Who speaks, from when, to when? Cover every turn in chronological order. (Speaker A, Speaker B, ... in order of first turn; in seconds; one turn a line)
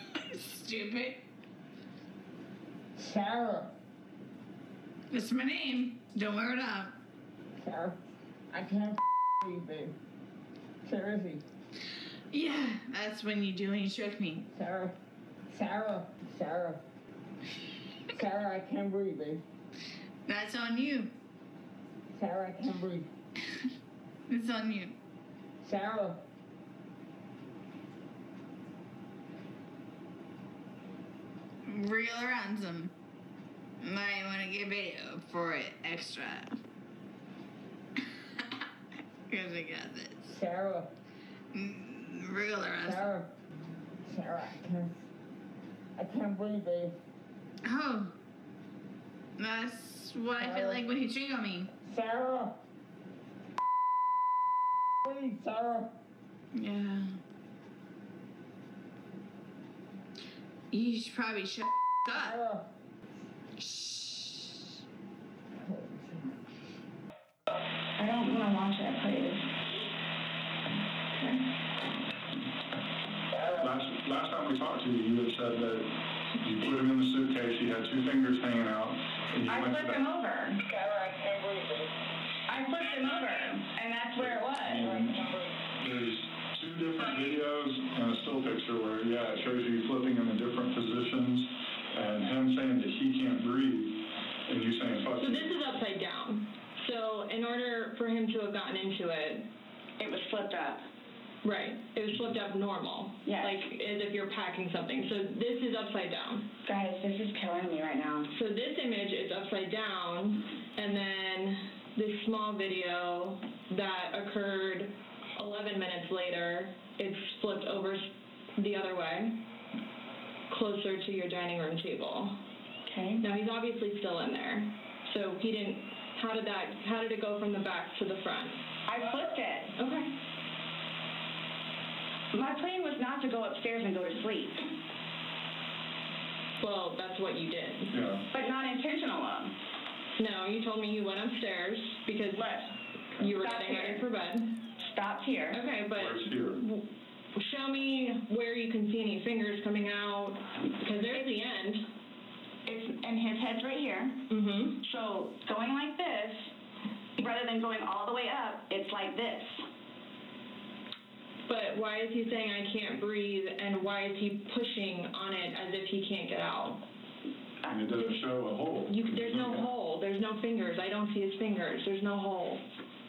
Speaker A: 0.2-1.2
Speaker B: 3.0-3.7
Speaker A: 5.1-7.0
Speaker B: 7.6-8.0
Speaker B: 8.5-9.9
Speaker B: 10.8-11.4
Speaker A: 12.3-14.5
Speaker B: 14.5-14.9
Speaker B: 15.5-16.8
Speaker B: 18.2-19.4
Speaker A: 20.3-21.1
Speaker B: 22.1-23.1
Speaker A: 24.3-25.0
Speaker B: 25.6-26.2
Speaker A: 31.6-32.9
Speaker A: 33.8-36.6
Speaker A: 38.0-38.6
Speaker A: 39.3-40.2
Speaker B: 40.2-40.9
Speaker A: 41.5-43.1
Speaker B: 42.9-43.3
Speaker B: 44.0-45.0
Speaker B: 46.0-47.0
Speaker A: 47.6-48.2
Speaker A: 49.4-51.7
Speaker B: 50.4-50.9
Speaker B: 51.8-52.6
Speaker B: 55.1-55.9
Speaker A: 56.5-57.2
Speaker A: 60.7-62.4
Speaker B: 62.1-62.7
Speaker B: 65.6-66.4
Speaker C: 68.0-69.5
Speaker C: 71.2-71.4
Speaker B: 73.3-73.7
Speaker D: 73.5-80.0
Speaker C: 79.5-80.6
Speaker B: 80.6-81.9
Speaker C: 82.5-85.0
Speaker D: 84.2-95.6
Speaker B: 84.8-85.5
Speaker E: 95.2-99.5
Speaker C: 100.0-100.8
Speaker E: 101.4-106.5
Speaker C: 103.2-103.6
Speaker C: 106.7-108.3
Speaker E: 108.3-119.5
Speaker E: 120.5-122.4
Speaker C: 122.9-123.2
Speaker E: 123.2-128.6
Speaker C: 128.9-129.8
Speaker E: 129.8-130.1
Speaker C: 132.3-134.7
Speaker E: 136.6-137.9
Speaker D: 137.9-138.3
Speaker C: 138.3-139.6
Speaker E: 140.2-142.5
Speaker C: 142.3-144.0
Speaker E: 143.2-144.6
Speaker C: 144.8-145.6
Speaker E: 145.5-151.8
Speaker D: 145.9-146.6
Speaker C: 152.7-154.2
Speaker E: 154.3-154.8
Speaker C: 154.8-156.5
Speaker C: 157.2-159.6
Speaker E: 161.5-166.8
Speaker D: 167.7-169.7
Speaker E: 167.9-168.2
Speaker E: 168.9-172.6